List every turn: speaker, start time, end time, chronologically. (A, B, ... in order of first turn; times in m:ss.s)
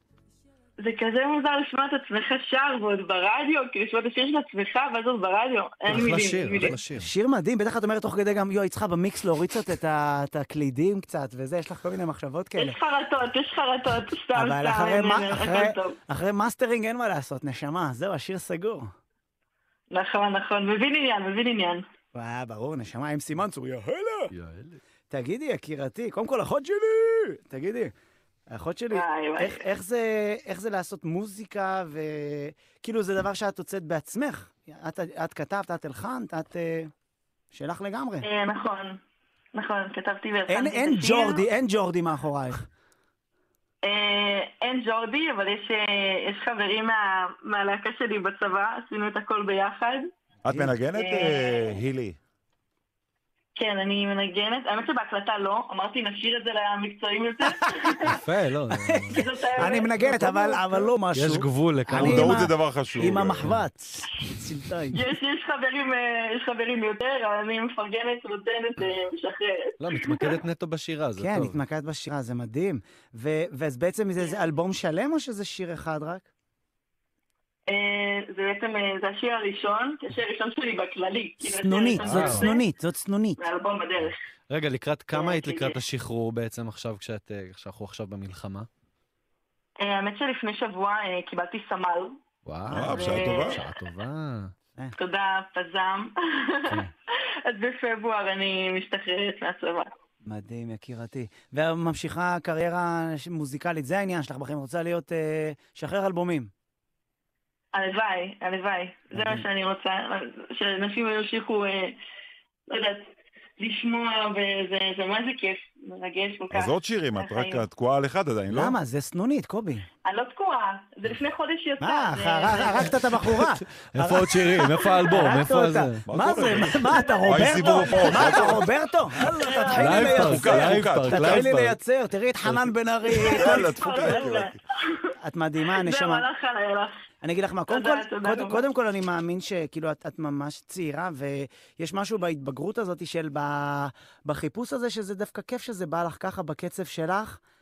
0:00.8-0:06.8 A
0:05.9-0:07.1 B
0:06.9-0:12.8 C
0:12.6-0:16.0 A
0:14.3-0:18.9 C
0:19.9-0:21.8 A
0:22.1-0:24.3 C
0:24.3-0:24.8 B
0:25.1-0:27.9 C
0:28.5-0:36.9 C
0:28.9-0:29.6 A
0:37.5-0:38.2 C
0:38.2-0:39.0 A
0:39.5-0:41.4 A
0:40.5-0:42.6 C
0:43.8-0:50.1 A
0:50.4-0:52.2 D
0:50.9-0:51.7 A
0:53.6-0:58.2 A
0:58.0-0:59.3 B
0:58.9-1:05.0 C
0:59.0-1:00.6 A
1:01.1-1:02.5 B
1:01.9-1:03.5 D
1:04.9-1:10.4 A
1:09.8-1:11.6 B
1:11.2-1:16.2 C
1:17.7-1:22.7 A
1:21.4-1:23.4 C
1:22.0-1:22.5 B
1:23.4-1:24.2 A
1:24.5-1:28.7 B
1:25.1-1:25.8 A
1:29.8-1:32.2 A
1:32.4-1:34.5 B
1:32.7-1:33.6 D
1:32.9-1:33.6 A
1:35.0-1:36.9 A
1:37.4-1:39.9 A
1:40.2-1:46.5 C
1:47.7-1:52.0 A
1:49.1-1:49.4 C
1:52.7-1:57.6 A
1:56.5-1:58.8 D
1:58.5-1:59.9 C
2:00.0-2:03.0 A
2:01.8-2:14.4 C
2:03.3-2:06.0 B
2:06.0-2:08.7 D
2:07.1-2:08.5 A
2:09.3-2:10.1 A
2:09.7-2:11.8 B
2:10.0-2:11.6 D
2:13.1-2:15.1 A
2:13.2-2:14.6 D
2:15.2-2:16.2 C
2:15.7-2:17.0 A
2:17.2-2:27.4 C
2:17.7-2:18.6 A